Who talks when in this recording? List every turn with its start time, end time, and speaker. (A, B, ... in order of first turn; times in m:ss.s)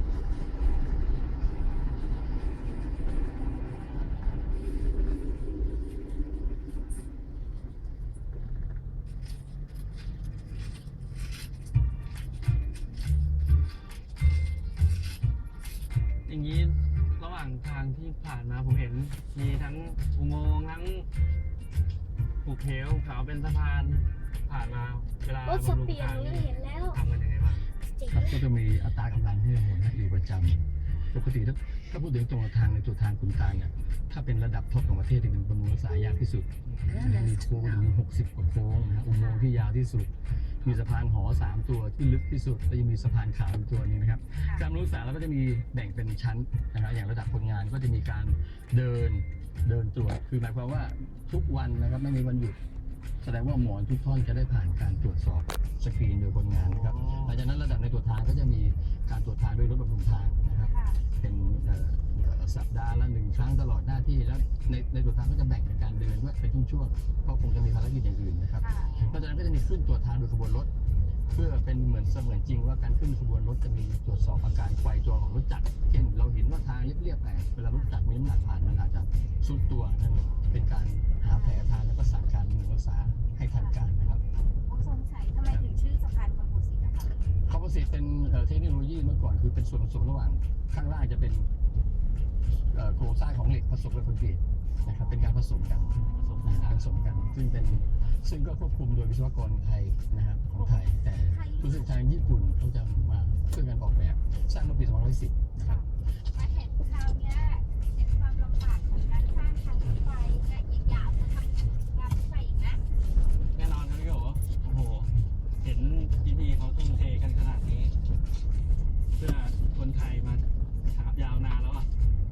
0:16.2-0:21.1 A
0:22.4-0:27.7 A
0:25.4-0:27.0 B
0:28.0-0:28.4 B
0:28.1-0:52.6 C
0:36.9-0:37.8 B
0:53.2-1:10.7 C
0:56.5-0:57.4 A
1:11.3-1:24.2 C
1:21.3-1:21.6 D
1:24.7-1:27.2 D
1:27.4-1:31.5 C
1:32.7-1:45.8 C
1:36.1-1:36.9 A
1:40.6-1:41.9 D
1:46.3-1:52.8 D
1:53.5-1:57.9 A
1:59.2-2:01.9 A